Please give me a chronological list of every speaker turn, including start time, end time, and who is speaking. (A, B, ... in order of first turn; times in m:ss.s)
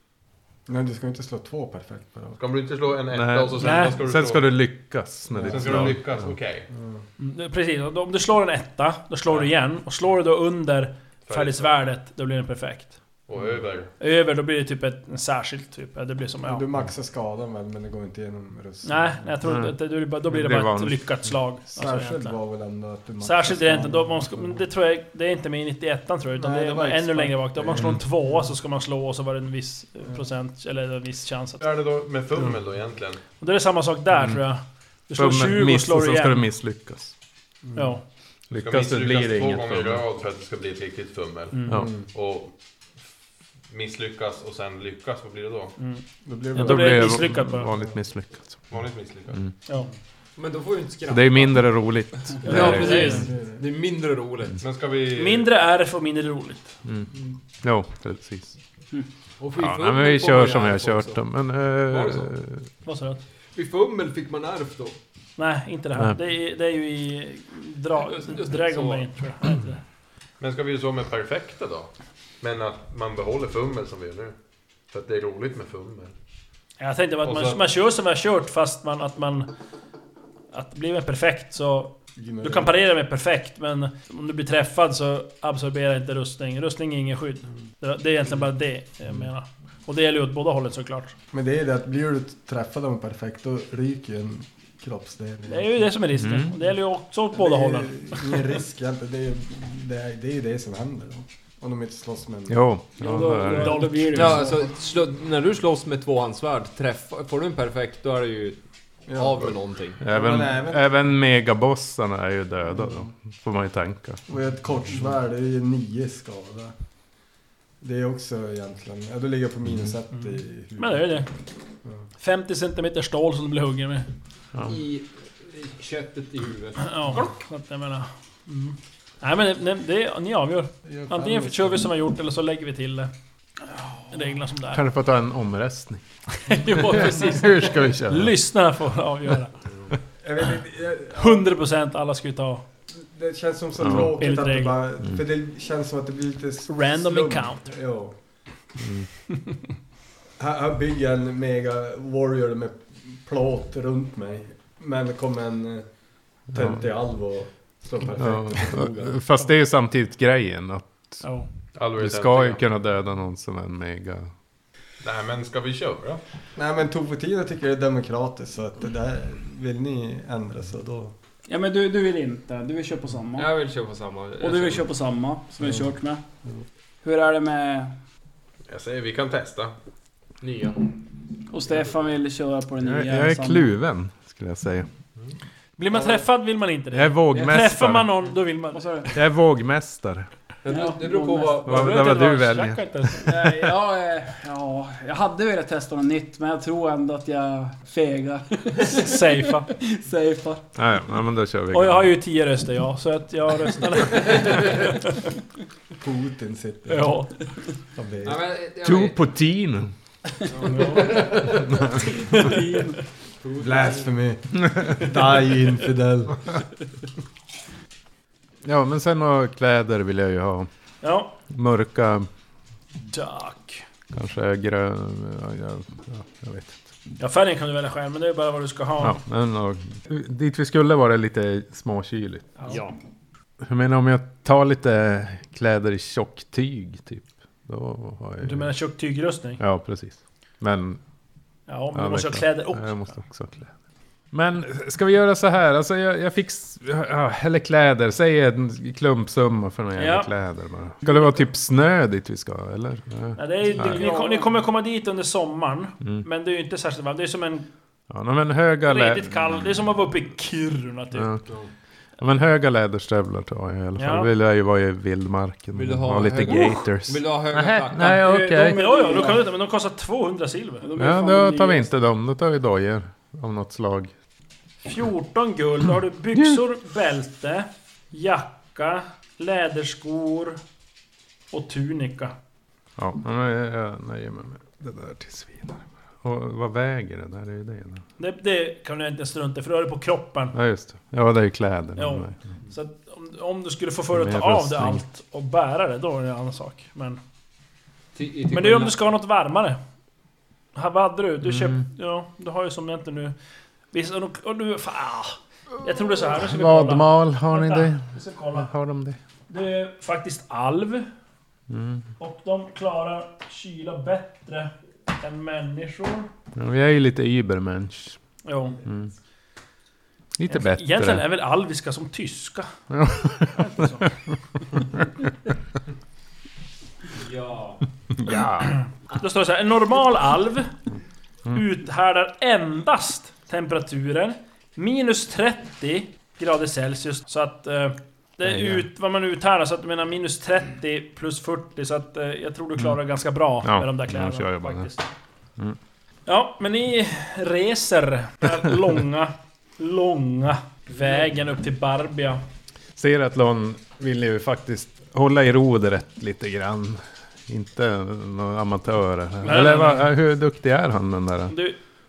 0:00.7-0:02.4 A
0:02.4-0:04.5 B
0:03.1-0:06.0 C
0:03.6-0:04.0 D
0:05.3-0:06.0 A
0:05.5-0:06.7 B
0:06.7-0:07.0 A
0:07.2-0:13.0 D
0:11.2-0:11.8 B
0:13.3-0:13.9 B
0:14.0-0:16.7 D
0:16.4-0:19.3 A
0:18.8-0:22.4 D
0:19.4-0:21.4 C
0:21.7-0:24.6 A
0:23.2-0:31.6 D
0:26.4-0:28.0 A
0:31.6-0:33.2 B
0:33.4-0:36.4 D
0:34.1-0:34.4 C
0:35.1-0:37.1 C
0:37.7-0:37.9 A
0:37.7-0:38.0 D
0:38.5-0:40.0 C
0:38.5-0:42.5 B
0:41.5-0:41.8 D
0:41.7-0:42.1 A
0:43.7-0:45.8 B
0:45.8-0:47.7 D
0:46.2-0:47.9 A
0:46.6-0:48.7 C
0:48.7-0:49.4 B
0:50.4-0:54.6 E
0:51.1-0:53.3 C
0:52.4-0:53.2 F
0:52.5-0:53.2 D
0:52.5-0:53.6 A
0:54.6-0:55.5 B
0:55.1-0:56.7 D
0:57.6-0:58.6 C
0:59.4-1:01.2 E
0:59.6-1:02.6 C
1:01.9-1:02.3 E
1:02.8-1:03.2 D
1:03.5-1:05.0 E
1:05.4-1:09.8 D
1:08.0-1:09.1 E
1:10.4-1:14.3 B
1:14.9-1:16.1 B
1:16.8-1:19.5 D
1:17.2-1:17.6 B
1:20.5-1:31.1 D
1:22.2-1:22.7 A
1:31.3-1:35.8 A
1:35.5-1:38.4 D
1:36.1-1:36.6 C
1:37.3-1:42.7 A
1:42.5-1:43.9 C
1:43.0-1:44.6 F
1:43.5-1:44.4 D
1:44.1-1:48.6 E
1:49.1-1:50.9 A
1:49.1-1:50.0 E
1:50.0-1:54.2 C
1:54.3-1:56.7 A
1:57.8-2:01.2 A
2:00.1-2:01.3 D
2:02.2-2:04.1 D
2:04.6-2:07.2 E
2:06.8-2:13.1 D
2:10.8-2:11.9 A
2:14.1-2:14.8 D
2:14.7-2:18.3 C
2:16.4-2:19.5 D
2:20.2-2:21.5 A
2:21.1-2:22.6 D
2:22.9-2:28.2 A
2:23.8-2:24.2 C
2:23.9-2:24.8 D
2:26.7-2:27.8 D
2:28.8-2:29.1 C
2:30.4-2:35.9 A
2:36.4-2:39.2 A
2:36.5-2:36.8 C
2:38.2-2:41.2 C
2:41.2-2:41.5 D
2:41.7-2:42.6 B
2:42.0-2:44.3 C
2:45.0-2:46.2 B
2:46.5-2:51.1 A
2:51.5-2:53.5 F
2:53.4-2:54.9 E
2:54.4-2:56.2 F
2:57.0-2:57.9 F
2:58.7-2:59.7 B
3:00.4-3:00.8 E
3:01.5-3:03.7 F
3:02.8-3:04.9 C
3:05.8-3:09.0 D
3:05.9-3:06.2 A
3:06.9-3:08.1 C
3:08.7-3:09.1 F
3:09.1-3:10.3 C
3:10.6-3:12.1 E
3:10.7-3:11.8 F
3:11.6-3:13.4 D
3:11.7-3:13.1 C
3:13.2-3:20.7 F
3:19.0-3:19.7 D
3:20.8-3:22.1 C
3:21.7-3:25.3 D
3:26.0-3:27.2 A
3:26.9-3:27.3 D
3:27.9-3:28.4 A
3:28.2-3:29.2 E
3:28.8-3:29.9 C
3:30.5-3:31.5 E
3:30.6-3:31.4 D
3:30.9-3:31.8 A
3:32.3-3:33.0 F
3:32.3-3:32.6 D
3:33.4-3:34.2 E
3:33.6-3:36.6 A
3:34.7-3:35.2 C
3:38.6-3:40.7 C
3:41.0-3:41.3 D
3:41.5-3:42.3 C
3:43.0-3:43.8 D
3:44.1-3:46.8 C
3:47.2-3:49.2 D
3:49.0-3:52.6 C
3:52.7-3:52.9 E
3:53.6-3:58.7 C
3:58.4-3:59.6 D
3:59.6-4:01.0 C
4:01.7-4:03.2 D
4:01.9-4:03.7 C
4:04.3-4:14.1 C
4:10.0-4:10.3 D
4:11.0-4:11.4 D
4:13.4-4:17.7 D
4:13.6-4:14.6 F
4:18.1-4:19.6 C
4:18.8-4:21.3 D
4:21.1-4:21.5 C
4:22.2-4:28.8 C
4:24.0-4:24.3 D
4:25.7-4:28.4 E
4:28.0-4:29.4 F
4:28.6-4:30.9 D
4:30.8-4:31.9 F
4:31.0-4:34.1 C
4:34.8-4:40.6 D
4:41.5-4:42.3 D
4:43.0-4:48.0 C
4:48.2-4:50.5 D
4:50.5-4:52.3 C
4:52.0-4:57.2 D
4:54.1-4:55.0 C
4:58.1-4:58.9 E
4:58.5-4:59.8 D
5:00.7-5:03.3 D
5:01.4-5:01.8 C
5:03.9-5:08.7 D
5:06.3-5:09.2 C
5:09.5-5:11.1 D
5:11.7-5:12.0 C
5:12.2-5:16.3 D
5:16.6-5:18.2 C
5:18.4-5:18.8 D
5:20.4-5:21.2 C
5:20.5-5:22.7 D
5:22.9-5:23.5 C
5:23.4-5:24.1 D
5:27.1-5:27.8 E
5:28.2-5:28.7 C
5:28.6-5:30.7 D
5:31.5-5:45.1 D
5:38.4-5:38.9 C
5:43.6-5:44.9 C
5:46.2-5:52.4 D
5:53.0-6:01.6 C
5:59.4-6:00.1 D
6:01.5-6:01.8 D